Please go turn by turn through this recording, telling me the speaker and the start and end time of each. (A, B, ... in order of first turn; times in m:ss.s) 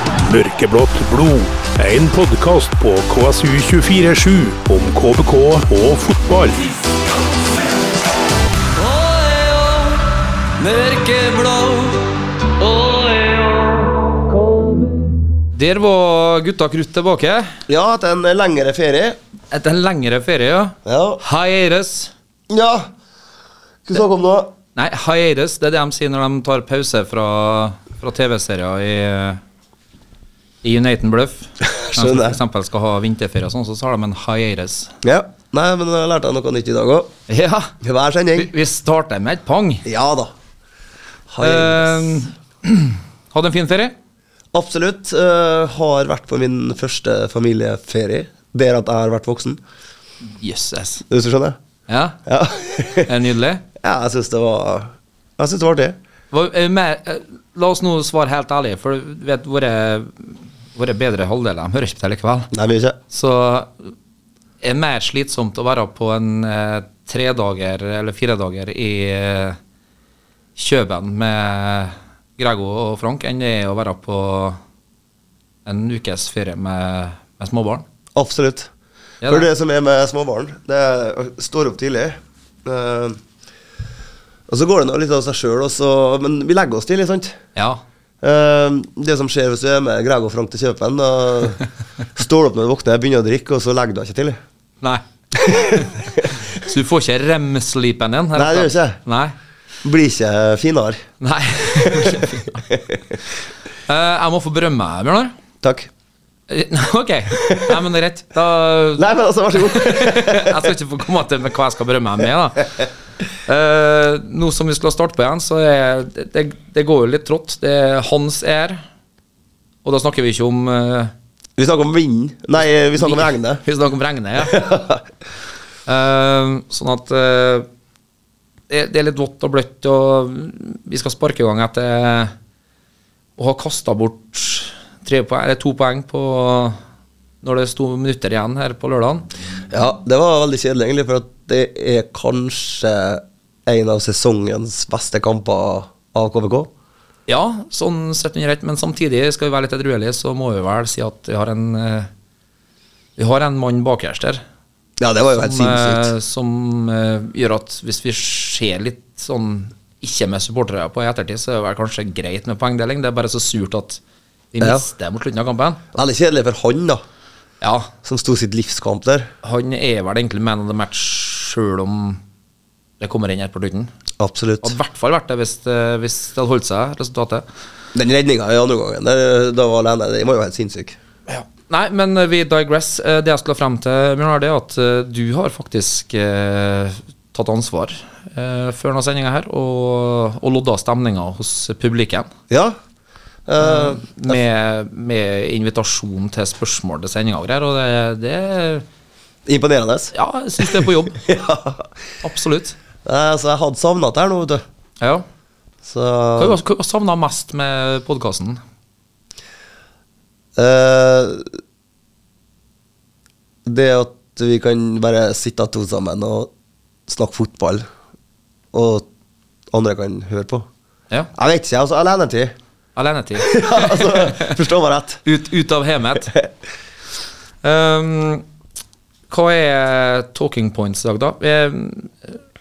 0:00.2-0:06.7 A
0:08.8-0:10.0 B
0:10.6-0:13.9 B
0:15.5-0:17.6 B
0:17.7-0:19.2 C
0:19.5-0:22.1 B
0:20.8-0:21.2 C
0:22.5-0:22.9 C
0:23.8-0:24.5 C
0:24.7-0:29.4 B
0:30.6-0:34.9 B
0:31.6-0:32.4 C
0:35.0-0:37.1 C
0:37.3-0:37.7 B
0:37.8-0:38.5 C
0:38.3-0:39.8 B
0:39.8-0:40.3 C
0:41.3-0:42.2 C
0:41.4-0:43.9 B
0:44.5-0:49.6 C
0:50.4-0:51.0 B
0:51.1-0:51.6 C
0:51.9-0:52.2 B
0:52.2-0:53.1 C
0:53.0-0:53.6 B
0:53.8-0:56.0 C
0:56.3-1:02.5 B
1:02.5-1:03.0 C
1:03.1-1:03.9 B
1:04.6-1:09.6 B
1:10.6-1:14.6 B
1:15.6-1:17.8 B
1:18.1-1:18.7 C
1:19.2-1:19.5 B
1:19.3-1:23.2 C
1:24.5-1:27.4 C
1:27.6-1:27.8 B
1:28.2-1:31.6 C
1:32.1-1:34.4 C
1:34.8-1:39.4 B
1:35.4-1:36.3 C
1:38.3-1:39.0 C
1:39.8-1:41.0 C
1:41.2-1:42.6 B
1:41.8-1:43.2 C
1:43.9-1:45.3 B
1:45.6-1:45.9 C
1:46.5-1:49.0 B
1:47.4-1:47.8 C
1:49.0-1:50.7 C
1:49.6-1:52.9 B
1:53.4-1:58.8 B
1:59.8-2:01.1 B
2:01.6-2:03.6 C
2:03.0-2:04.6 B
2:04.4-2:05.0 C
2:05.8-2:07.7 B
2:08.7-2:12.3 B
2:13.4-2:16.8 B
2:17.4-2:19.3 B
2:19.7-2:26.7 C
2:27.3-2:32.1 B
2:33.2-2:34.4 B
2:35.0-2:36.1 C
2:35.3-2:44.0 B
2:44.5-2:45.8 B
2:45.9-2:47.0 C
2:47.6-2:47.9 B
2:48.0-2:49.3 C
2:49.4-2:52.2 B
2:53.0-2:53.9 B
2:54.2-2:54.7 C
2:54.6-2:57.4 B
2:57.9-3:01.0 C
3:01.3-3:12.3 B
3:12.5-3:12.8 C
3:13.4-3:14.4 C
3:13.6-3:18.8 B
3:19.4-3:21.9 C
3:20.1-3:21.2 B
3:22.2-3:22.8 B
3:23.0-3:24.6 C
3:25.8-3:26.6 C
3:26.4-3:28.6 B
3:30.6-3:31.5 C
3:33.6-3:36.5 C
3:37.1-3:37.8 C
3:38.7-3:39.0 C
3:39.7-3:40.6 C
3:41.3-3:42.6 C
3:43.0-3:44.6 B
3:43.4-3:45.2 C
3:45.2-3:46.3 B
3:47.6-3:48.4 B
3:49.3-3:52.4 B